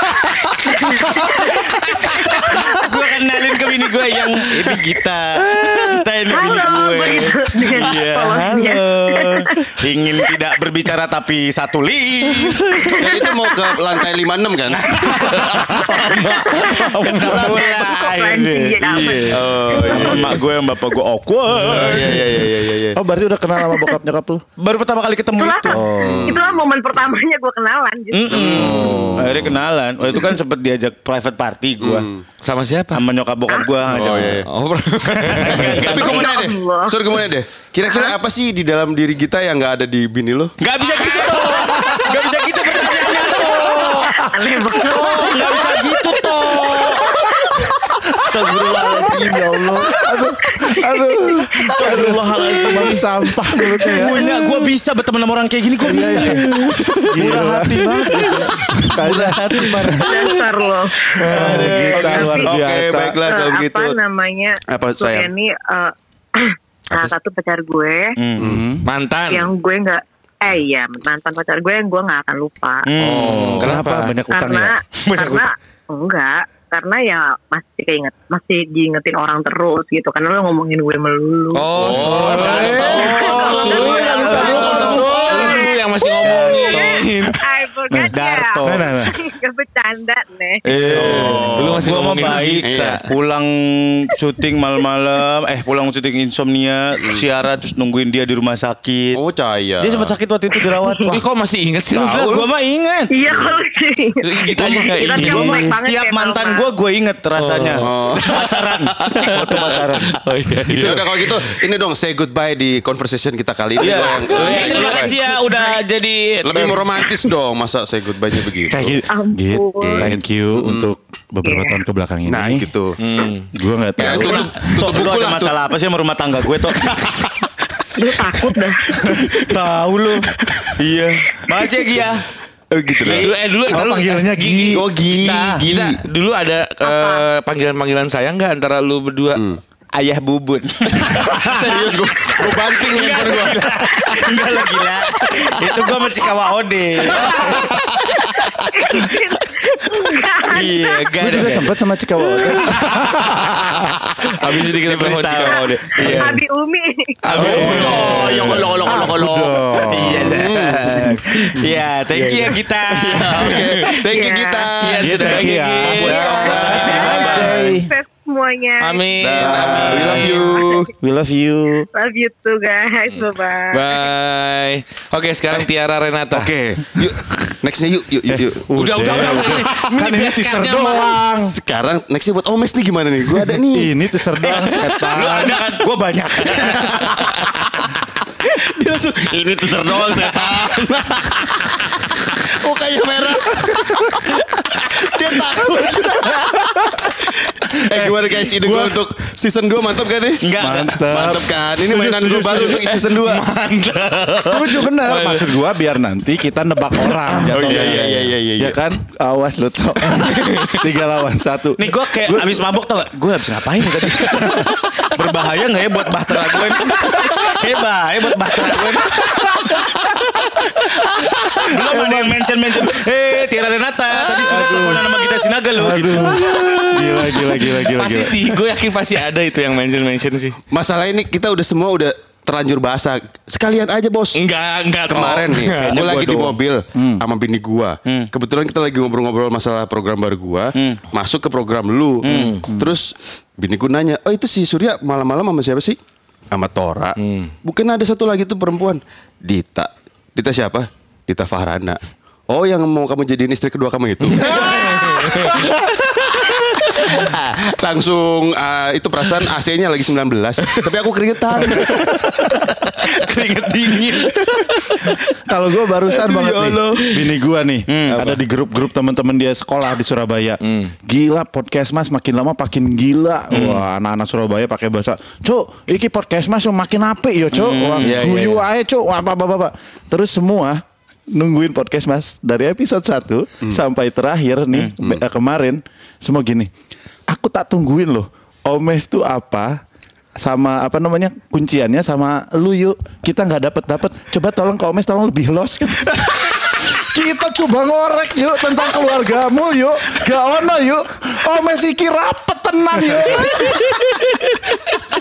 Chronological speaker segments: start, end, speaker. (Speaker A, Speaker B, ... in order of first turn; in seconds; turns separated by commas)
Speaker A: 0.5-13.0, Speaker B: 6.3-10.3, Speaker C: 7.8-8.0, Speaker B: 12.7-14.0, Speaker D: 13.0-15.6, Speaker A: 14.8-22.2, Speaker B: 15.0-20.2, Speaker D: 19.3-20.4, Speaker D: 21.7-23.0, Speaker E: 21.8-22.2, Speaker E: 22.9-24.4, Speaker B: 23.6-23.9, Speaker A: 24.6-26.1, Speaker B: 25.4-28.6, Speaker E: 25.7-26.4, Speaker D: 26.0-26.6, Speaker A: 28.1-32.1, Speaker D: 28.3-29.5, Speaker C: 28.4-29.5, Speaker D: 31.8-32.2, Speaker C: 32.4-33.0, Speaker A: 32.9-34.4, Speaker D: 33.8-34.5, Speaker C: 34.1-35.9, Speaker A: 35.1-36.4, Speaker D: 35.4-40.5, Speaker B: 35.8-37.0, Speaker A: 40.6-50.1, Speaker E: 41.4-42.2, Speaker B: 43.3-45.6, Speaker E: 44.0-45.7, Speaker E: 46.5-47.6, Speaker E: 48.1-54.5, Speaker A: 51.6-60.1, Speaker E: 55.8-60.1, Speaker C: 56.2-57.1, Speaker B: 60.0-62.5, Speaker E: 61.1-63.2, Speaker D: 61.3-64.0, Speaker A: 61.6-61.9, Speaker B: 63.2-68.2, Speaker D: 64.7-65.3, Speaker A: 68.2-68.5, Speaker D: 68.4-68.6, Speaker E: 68.4-68.9, Speaker C: 68.8-69.5, Speaker B: 69.3-72.9, Speaker A: 72.9-73.6, Speaker D: 73.0-73.7, Speaker C: 73.2-74.2, Speaker E: 73.6-74.8, Speaker B: 74.3-81.7, Speaker A: 74.9-75.5, Speaker C: 81.5-87.4, Speaker D: 81.7-85.6, Speaker E: 82.1-85.7, Speaker B: 82.5-90.6, Speaker A: 83.2-84.9, Speaker A: 86.2-87.0, Speaker E: 87.9-89.2, Speaker A: 88.1-88.9, Speaker E: 90.7-91.5, Speaker D: 90.7-91.9, Speaker A: 90.8-99.2, Speaker C: 90.9-93.1, Speaker D: 92.6-93.0, Speaker D: 99.2-100.2, Speaker A: 99.8-101.2, Speaker B: 100.7-101.1, Speaker C: 101.0-102.3, Speaker D: 101.9-102.5, Speaker A: 102.0-103.2, Speaker B: 103.1-106.7, Speaker D: 103.3-103.5, Speaker C: 104.2-105.7, Speaker A: 105.1-110.2, Speaker C: 107.4-111.6, Speaker D: 107.8-109.3, Speaker D: 110.7-115.2, Speaker A: 113.8-117.1, Speaker C: 113.8-115.1, Speaker B: 114.3-114.9, Speaker D: 116.5-119.0, Speaker E: 118.7-122.7, Speaker B: 119.1-120.1, Speaker D: 119.8-120.9, Speaker B: 121.4-121.8, Speaker D: 122.3-123.0, Speaker C: 123.0-123.5, Speaker E: 123.5-124.7, Speaker D: 124.0-125.6, Speaker A: 124.0-127.5, Speaker B: 128.0-129.1, Speaker A: 129.0-132.3, Speaker D: 132.7-133.3, Speaker C: 133.0-139.4, Speaker E: 133.3-134.9, Speaker D: 134.7-136.0, Speaker A: 134.8-135.6, Speaker B: 136.8-137.2, Speaker D: 139.3-139.6, Speaker A: 139.9-148.2, Speaker D: 141.0-144.3, Speaker D: 147.2-147.4, Speaker B: 148.3-151.1, Speaker A: 149.9-151.8, Speaker E: 151.2-154.0, Speaker C: 152.4-153.1, Speaker A: 152.7-153.6, Speaker C: 154.2-156.4, Speaker A: 154.2-156.3, Speaker B: 155.5-157.5, Speaker E: 157.3-160.4, Speaker C: 157.3-158.7, Speaker A: 157.3-163.8, Speaker D: 157.3-161.6, Speaker D: 162.2-165.3, Speaker C: 162.3-162.6, Speaker C: 163.4-163.9, Speaker B: 164.1-164.7, Speaker A: 164.8-167.6, Speaker E: 165.0-167.9, Speaker C: 165.1-167.5, Speaker D: 165.9-167.3, Speaker B: 166.1-169.4, Speaker C: 168.8-170.6, Speaker D: 169.2-170.9, Speaker E: 169.7-170.2, Speaker B: 170.2-170.8, Speaker E: 171.0-171.9, Speaker B: 171.9-174.1, Speaker C: 173.2-176.5, Speaker D: 176.3-179.6, Speaker E: 178.3-181.6, Speaker C: 178.7-181.2, Speaker D: 181.3-183.9, Speaker E: 183.5-185.6, Speaker A: 184.4-188.0, Speaker A: 188.5-191.1, Speaker D: 189.2-194.2, Speaker D: 194.9-196.3, Speaker A: 195.3-196.6, Speaker E: 196.7-197.1, Speaker D: 197.7-200.5, Speaker E: 197.7-199.0, Speaker A: 200.4-201.1, Speaker E: 200.6-203.1, Speaker D: 201.0-203.4, Speaker C: 202.9-205.6, Speaker E: 204.4-212.7, Speaker D: 207.5-208.8, Speaker A: 207.5-208.1, Speaker C: 207.7-208.1, Speaker C: 210.1-210.9, Speaker A: 211.8-219.8, Speaker E: 214.2-214.8, Speaker E: 216.9-217.4, Speaker E: 219.2-219.9, Speaker A: 221.1-226.5, Speaker E: 221.3-222.5, Speaker E: 224.4-225.1, Speaker E: 225.7-228.6, Speaker C: 226.1-230.6, Speaker D: 230.7-234.4, Speaker C: 234.3-236.1, Speaker D: 235.1-246.0, Speaker A: 235.8-236.6, Speaker E: 236.9-237.2, Speaker A: 240.8-241.0, Speaker A: 242.2-242.6, Speaker C: 242.2-242.6, Speaker E: 242.7-242.9, Speaker D: 246.5-255.7, Speaker C: 247.2-247.5, Speaker C: 254.4-255.6, Speaker D: 256.9-262.1, Speaker E: 261.9-262.4, Speaker A: 262.9-265.1, Speaker E: 265.5-286.7, Speaker D: 266.2-267.2, Speaker A: 267.9-268.2, Speaker C: 268.1-268.4, Speaker C: 270.6-270.9, Speaker C: 273.5-273.8, Speaker A: 277.5-278.1, Speaker C: 278.0-278.6, Speaker E: 287.3-289.8, Speaker E: 290.4-303.8, Speaker C: 303.3-304.7